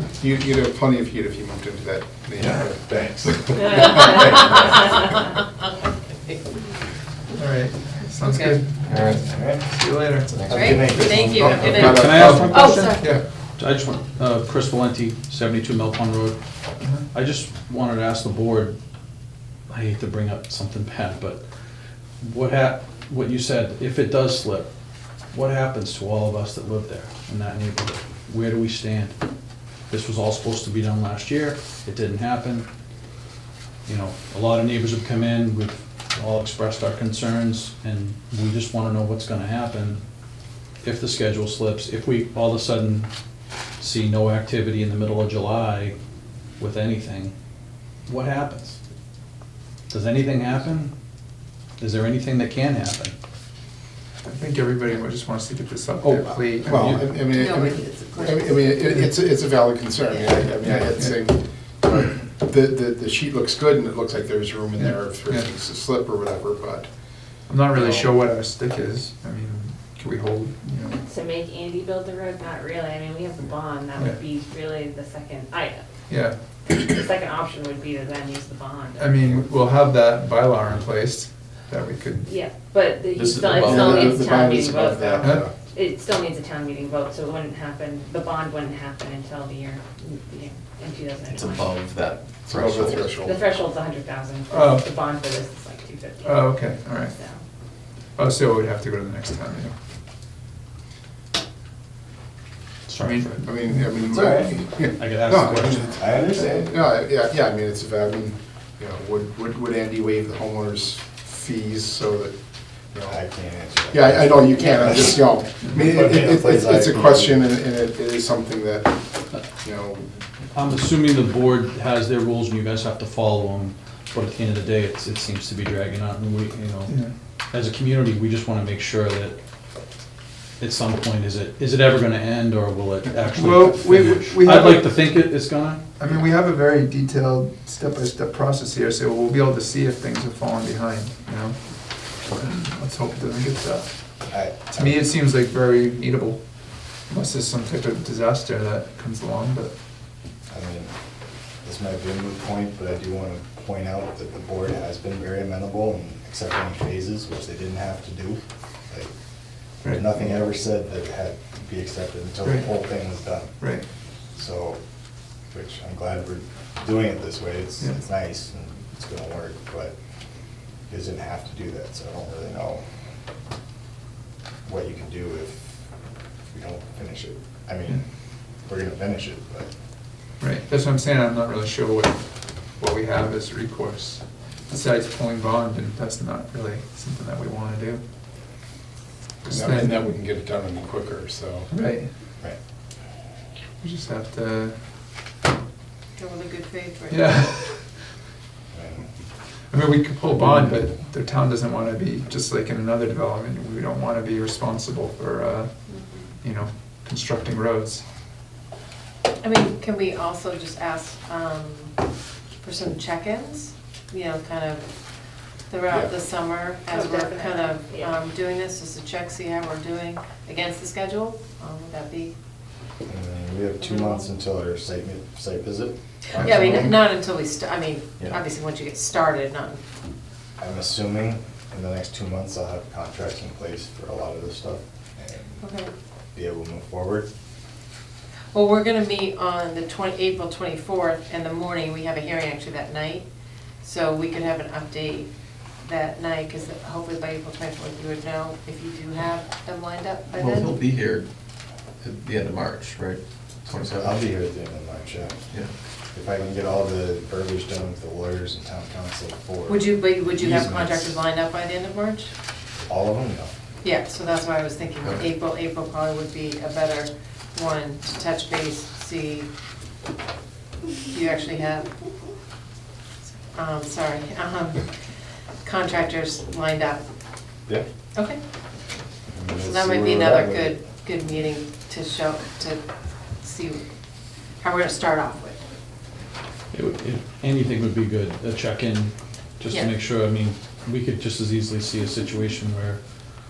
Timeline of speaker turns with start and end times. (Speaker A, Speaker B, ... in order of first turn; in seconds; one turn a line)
Speaker A: 0.2-2.8
Speaker B: 2.4-4.7
Speaker C: 4.0-4.8
Speaker D: 7.4-8.7
Speaker C: 8.2-8.6
Speaker E: 8.9-9.2
Speaker B: 9.1-9.6
Speaker D: 9.7-13.2
Speaker B: 10.4-12.0
Speaker E: 10.4-10.7
Speaker C: 10.5-13.2
Speaker A: 11.7-12.6
Speaker F: 11.8-13.0
Speaker F: 13.6-16.4
Speaker D: 16.8-17.1
Speaker F: 17.1-18.8
Speaker F: 19.7-21.4
Speaker F: 22.2-24.7
Speaker F: 25.3-29.2
Speaker F: 29.9-32.7
Speaker F: 33.9-40.0
Speaker F: 40.8-43.1
Speaker F: 43.8-46.0
Speaker F: 46.6-47.3
Speaker F: 48.1-48.8
Speaker F: 49.9-50.9
Speaker F: 51.8-53.1
Speaker D: 54.2-56.9
Speaker A: 56.0-66.9
Speaker C: 57.3-58.8
Speaker D: 60.6-61.1
Speaker D: 64.8-65.5
Speaker D: 67.5-71.0
Speaker A: 67.8-68.1
Speaker G: 71.0-75.8
Speaker D: 76.1-76.4
Speaker G: 76.7-79.3
Speaker D: 79.0-82.3
Speaker G: 82.2-91.7
Speaker E: 83.1-84.3
Speaker A: 83.6-85.5
Speaker D: 85.2-85.5
Speaker E: 91.2-93.2
Speaker A: 92.5-93.5
Speaker G: 93.2-97.4
Speaker D: 94.5-94.9
Speaker D: 96.2-97.2
Speaker D: 98.2-99.7
Speaker D: 102.9-103.9
Speaker F: 102.9-103.3
Speaker A: 103.4-112.3
Speaker B: 104.1-104.6
Speaker F: 105.0-106.0
Speaker B: 106.0-106.8
Speaker A: 112.9-113.2
Speaker B: 113.1-117.5
Speaker A: 113.9-120.2
Speaker F: 120.5-127.0
Speaker D: 126.9-127.1
Speaker F: 127.5-129.4
Speaker F: 130.6-136.1
Speaker D: 133.3-135.0
Speaker D: 136.0-141.6
Speaker D: 142.3-143.9
Speaker B: 144.3-145.0
Speaker D: 144.7-146.4
Speaker D: 147.1-149.7
Speaker B: 150.5-150.9
Speaker B: 151.6-159.1
Speaker B: 159.9-163.6
Speaker D: 163.6-163.9
Speaker B: 164.4-164.8
Speaker B: 165.5-169.9
Speaker B: 170.9-172.8
Speaker B: 174.6-175.8
Speaker B: 176.5-178.0
Speaker B: 178.7-179.7
Speaker D: 180.4-182.2
Speaker D: 182.8-188.0
Speaker D: 189.4-190.2
Speaker A: 189.5-191.7
Speaker D: 191.7-192.1
Speaker D: 193.8-194.8
Speaker C: 196.2-197.3
Speaker D: 197.1-197.8
Speaker B: 198.7-199.1
Speaker D: 199.7-205.7
Speaker D: 206.4-208.0
Speaker C: 209.4-211.9
Speaker C: 212.6-214.9
Speaker C: 215.7-222.3
Speaker G: 216.9-218.1
Speaker B: 223.1-227.0
Speaker C: 223.9-224.2
Speaker C: 226.3-229.8
Speaker D: 226.4-226.7
Speaker B: 230.6-235.6
Speaker C: 235.6-235.9
Speaker B: 236.3-237.3
Speaker C: 238.5-243.3
Speaker C: 243.8-245.3
Speaker C: 245.8-250.7
Speaker E: 250.3-251.3
Speaker E: 252.0-254.2
Speaker B: 253.7-255.4
Speaker B: 256.1-261.1
Speaker C: 259.7-262.3
Speaker B: 262.8-263.5
Speaker C: 263.8-269.5
Speaker C: 271.1-271.9
Speaker C: 273.4-274.9
Speaker C: 275.6-277.0
Speaker B: 279.3-280.8
Speaker C: 279.6-282.8
Speaker C: 283.4-283.9
Speaker C: 284.6-285.6
Speaker F: 286.7-293.0